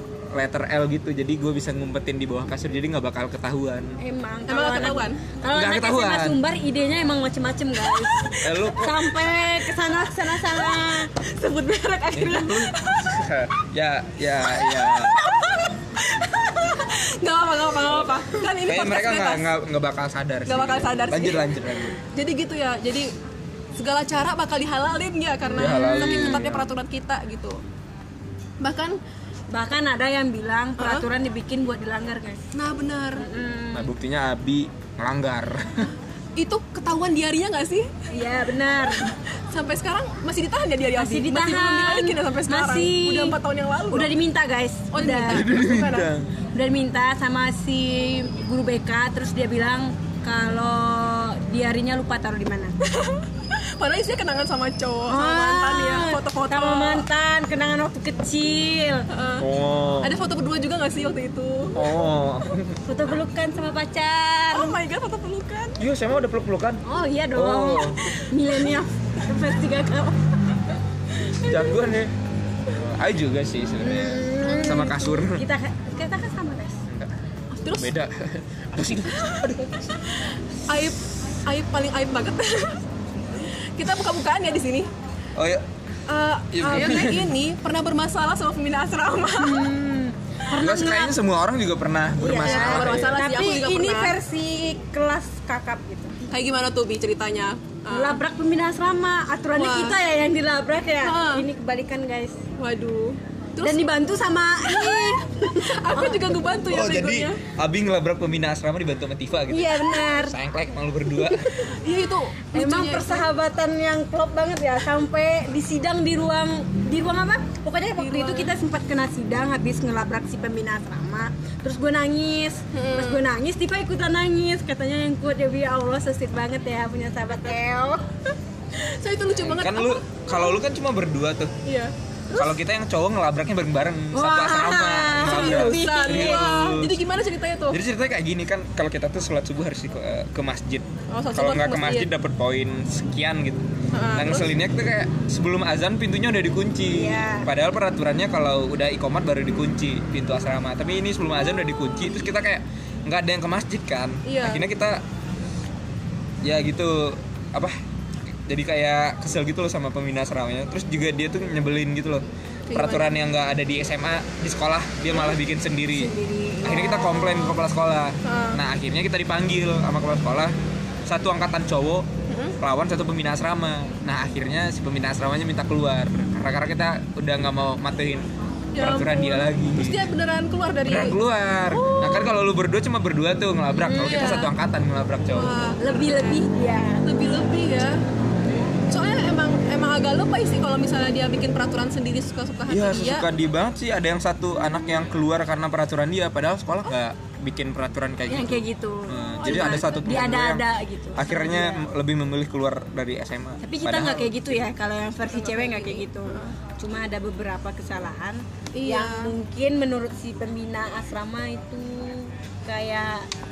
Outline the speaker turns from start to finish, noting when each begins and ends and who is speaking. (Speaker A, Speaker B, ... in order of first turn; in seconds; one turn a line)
Speaker A: 0.3-4.0
Speaker B: 4.0-11.1
Speaker C: 4.5-5.2
Speaker A: 5.5-6.4
Speaker A: 8.4-9.2
Speaker C: 10.7-13.1
Speaker A: 12.1-15.2
Speaker C: 14.5-19.5
Speaker A: 17.9-22.0
Speaker C: 20.5-21.5
Speaker C: 22.0-23.1
Speaker C: 23.8-27.6
Speaker B: 25.5-26.4
Speaker A: 25.5-26.7
Speaker C: 28.6-29.0
Speaker B: 29.5-32.4
Speaker C: 30.8-31.1
Speaker C: 32.5-33.3
Speaker B: 33.2-33.9
Speaker A: 33.7-35.9
Speaker C: 36.4-38.1
Speaker B: 38.1-39.1
Speaker C: 39.0-44.1
Speaker B: 41.0-43.4
Speaker B: 43.9-45.4
Speaker C: 44.9-46.1
Speaker A: 45.3-46.3
Speaker B: 46.5-52.8
Speaker C: 52.8-57.0
Speaker B: 55.1-59.1
Speaker C: 59.1-59.5
Speaker A: 59.4-60.2
Speaker C: 60.0-61.9
Speaker A: 61.8-62.8
Speaker B: 62.9-64.8
Speaker C: 64.5-65.8
Speaker A: 65.8-66.8
Speaker B: 66.8-70.2
Speaker A: 67.3-68.2
Speaker C: 71.2-71.7
Speaker A: 71.4-72.1
Speaker A: 72.7-75.4
Speaker B: 73.8-76.8
Speaker A: 76.9-77.2
Speaker C: 77.5-77.9
Speaker A: 77.7-80.0
Speaker C: 79.1-79.5
Speaker C: 80.7-82.8
Speaker C: 83.5-84.9
Speaker A: 85.3-85.7
Speaker C: 86.1-89.6
Speaker A: 86.5-87.3
Speaker B: 89.4-91.2
Speaker A: 90.6-93.2
Speaker B: 92.2-96.2
Speaker C: 92.4-94.2
Speaker C: 96.3-98.2
Speaker B: 97.9-102.4
Speaker C: 99.6-100.0
Speaker C: 101.0-101.5
Speaker C: 102.6-104.0
Speaker B: 103.6-106.3
Speaker C: 104.6-107.4
Speaker A: 106.7-111.7
Speaker B: 109.5-110.4
Speaker C: 111.6-113.3
Speaker B: 112.5-128.1
Speaker C: 118.0-118.5
Speaker C: 122.7-123.3
Speaker C: 128.7-130.6
Speaker A: 129.3-131.5
Speaker C: 131.7-132.6
Speaker A: 132.3-137.0
Speaker B: 134.1-136.5
Speaker C: 135.2-137.8
Speaker A: 137.7-155.0
Speaker C: 141.1-142.1
Speaker C: 143.9-144.5
Speaker B: 146.9-147.5
Speaker C: 154.3-154.6
Speaker A: 156.4-157.8
Speaker A: 158.5-170.6
Speaker C: 162.7-163.1
Speaker B: 165.9-167.6
Speaker C: 168.2-168.6
Speaker A: 171.1-172.1
Speaker C: 172.3-172.6
Speaker A: 172.6-178.3
Speaker C: 178.7-181.2
Speaker A: 178.8-180.1
Speaker A: 180.8-185.6
Speaker C: 181.7-182.4
Speaker B: 183.8-184.5
Speaker C: 184.0-184.4
Speaker C: 185.3-186.5
Speaker B: 185.8-187.1
Speaker C: 187.0-188.0
Speaker C: 188.9-193.3
Speaker A: 192.7-204.7
Speaker B: 198.3-201.9
Speaker C: 199.4-199.9
Speaker B: 203.6-213.3
Speaker C: 205.3-206.6
Speaker C: 208.7-209.3